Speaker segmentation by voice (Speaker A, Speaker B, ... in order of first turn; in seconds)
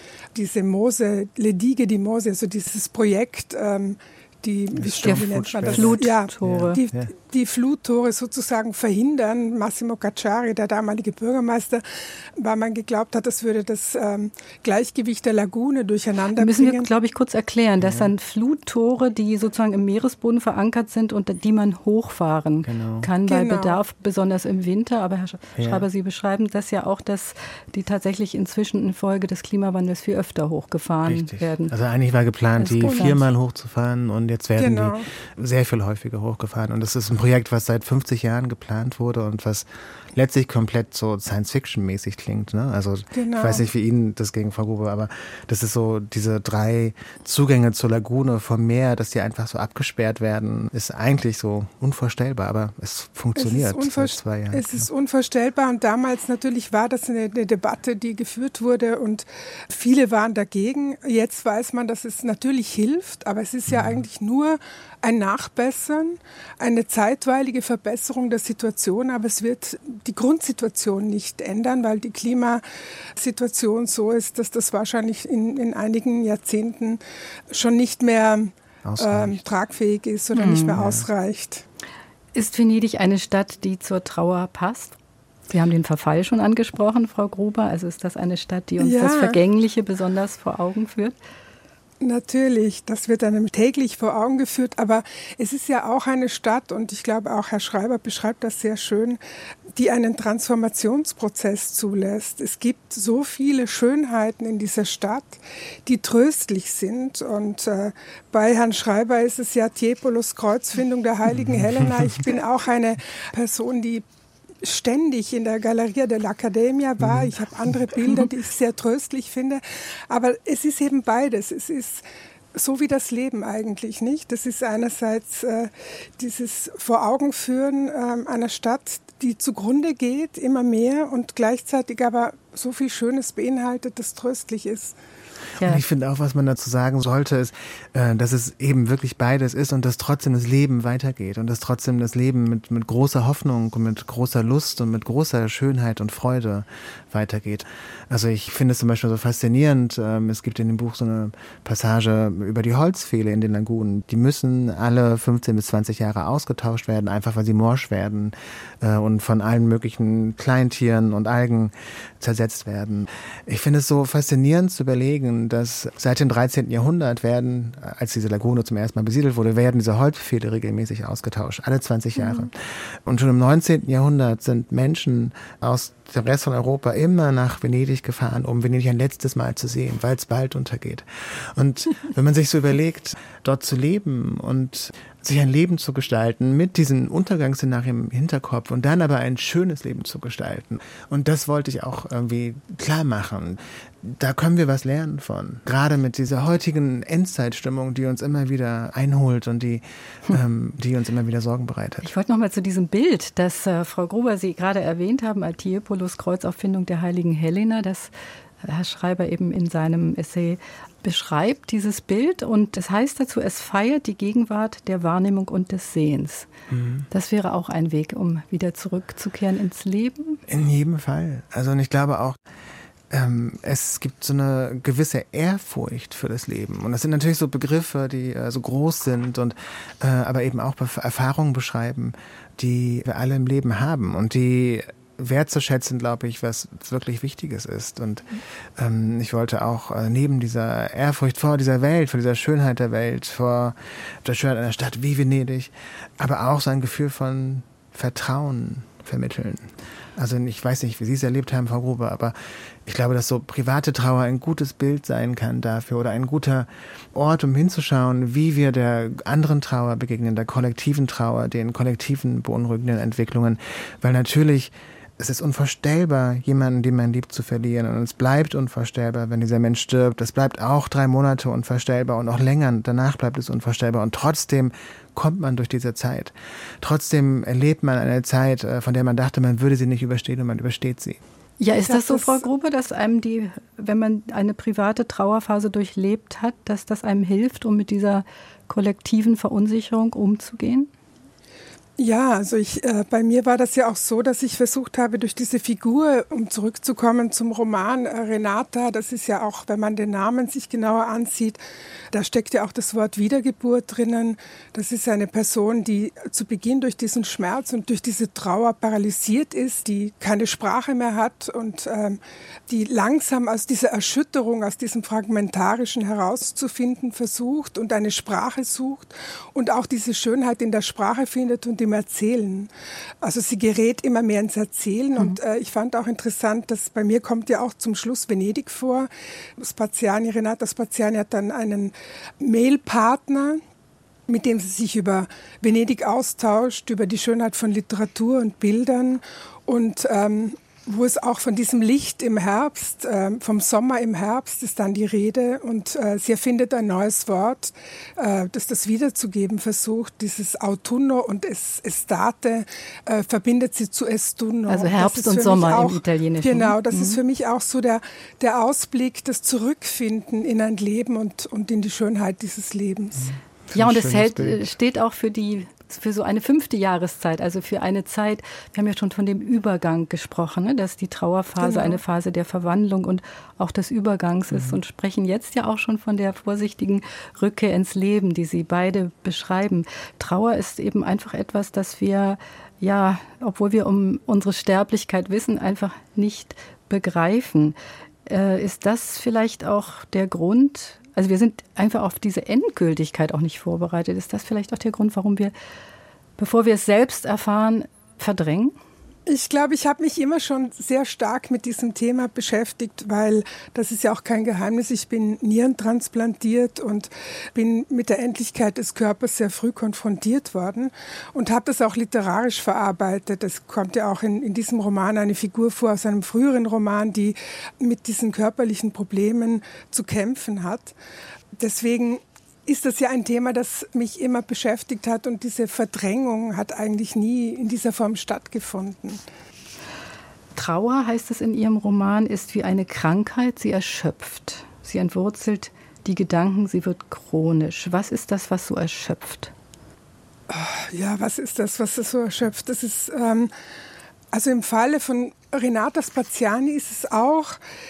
Speaker A: 0.3-11.8, 12.4-16.9, 23.2-23.8, 32.9-33.1, 34.6-35.1, 43.1-43.6, 53.4-72.6, 73.2-77.0, 77.5-81.6, 88.8-89.4, 92.0-99.2, 99.7-114.0, 114.6-122.0, 122.5-134.9, 281.9-282.4, 292.0-301.6, 302.1-322.7, 323.2-333.6, 334.3-363.3, 371.6-372.0, 399.3-420.9, 421.6-429.2, 440.5-443.5, 444.3-447.6
Speaker B: 4.8-7.1, 17.8-18.1, 22.6-23.1, 25.6-25.9, 31.0-54.9, 63.7-64.0, 78.8-79.4, 80.8-81.1, 111.3-112.1, 117.0-117.3, 135.6-202.1, 216.7-217.1, 220.5-222.4, 223.1-252.3, 252.8-281.2, 363.2-364.7, 374.5-374.8
Speaker C: 5.0-6.8, 16.4-31.7, 32.6-33.2, 80.3-80.8, 82.3-85.0, 85.5-91.2, 202.0-208.1, 208.6-216.5, 217.1-220.4, 281.6-290.9, 354.7-357.2, 363.7-395.5, 396.4-398.8, 430.6-439.5